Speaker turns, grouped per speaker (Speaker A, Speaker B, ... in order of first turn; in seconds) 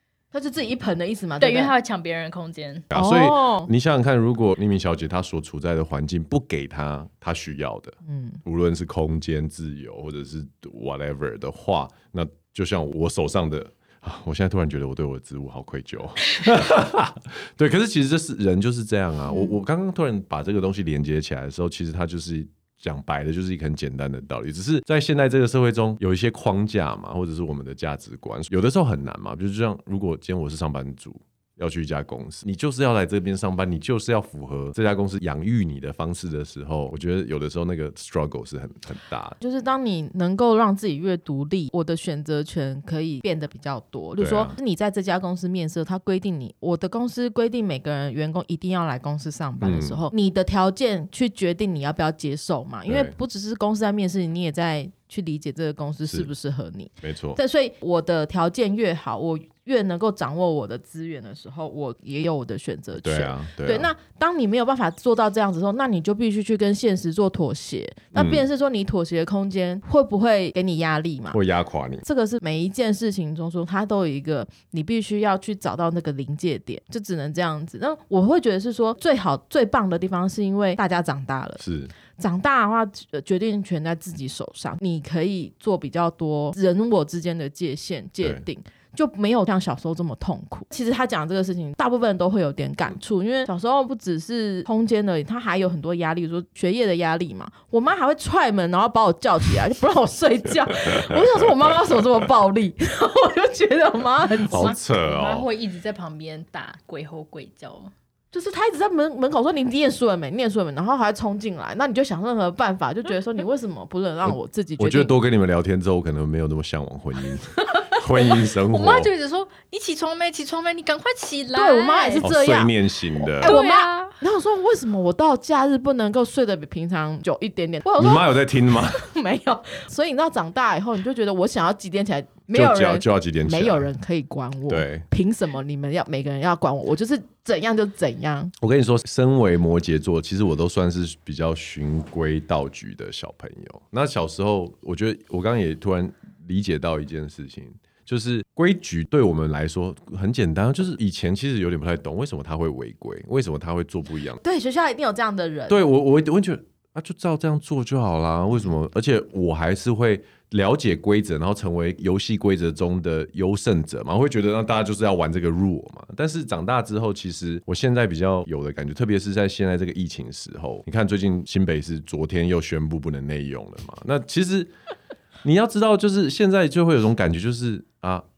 Speaker A: 0.3-1.7, 2.9-3.7, 8.0-8.4, 19.3-19.6, 39.4-71.4, 72.0-81.6, 82.1-104.8, 108.3-115.1, 121.5-138.5, 154.4-155.8
Speaker B: 1.4-2.9, 104.5-107.9, 118.2-122.3, 123.4-124.2
Speaker C: 2.9-39.4, 44.2-44.5, 49.6-50.0, 52.9-53.1, 57.0-57.4, 63.0-63.9, 68.1-68.4, 71.3-72.0, 81.6-81.9, 104.5-105.5, 114.2-119.1, 122.2-123.5, 128.0-129.1, 132.5-133.9, 134.7-135.0, 138.6-154.4, 155.7-174.7, 175.4-178.2